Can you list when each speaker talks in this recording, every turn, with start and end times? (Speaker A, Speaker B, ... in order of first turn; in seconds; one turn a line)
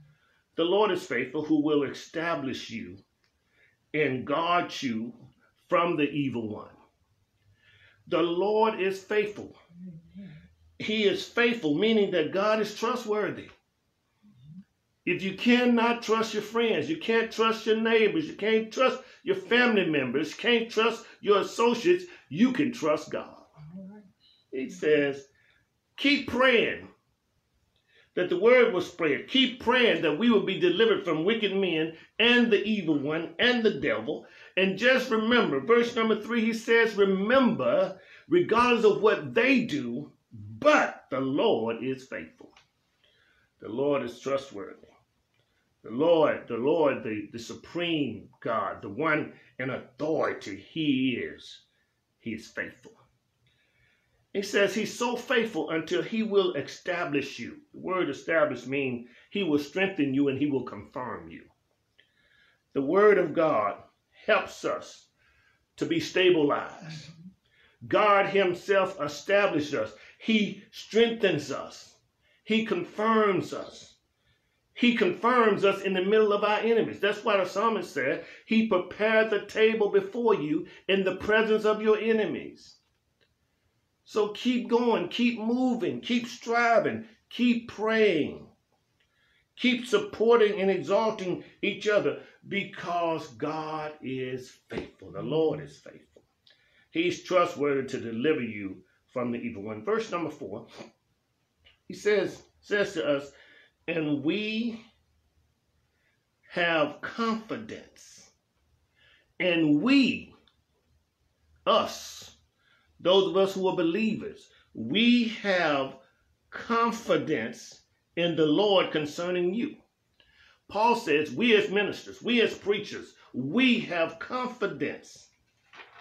Speaker A: 0.6-3.0
Speaker A: 3.9-6.8
Speaker A: 8.1-9.6
Speaker A: 10.8-13.5
Speaker A: 15.1-23.4
Speaker A: 24.5-25.3
Speaker A: 26.0-26.9
Speaker A: 28.1-42.5
Speaker A: 43.6-44.9
Speaker A: 45.8-51.6
Speaker A: 52.2-53.0
Speaker A: 54.3-61.5
Speaker A: 62.7-65.1
Speaker A: 65.8-67.1
Speaker A: 67.8-74.0
Speaker A: 74.8-82.8
Speaker A: 84.0-88.5
Speaker A: 89.6-96.3
Speaker A: 96.9-100.7
Speaker A: 101.9-103.3
Speaker A: 103.9-104.8
Speaker A: 106.5-108.3
Speaker A: 109.4-110.3
Speaker A: 111.7-112.4
Speaker A: 113.0-116.0
Speaker A: 116.5-119.8
Speaker A: 120.7-125.3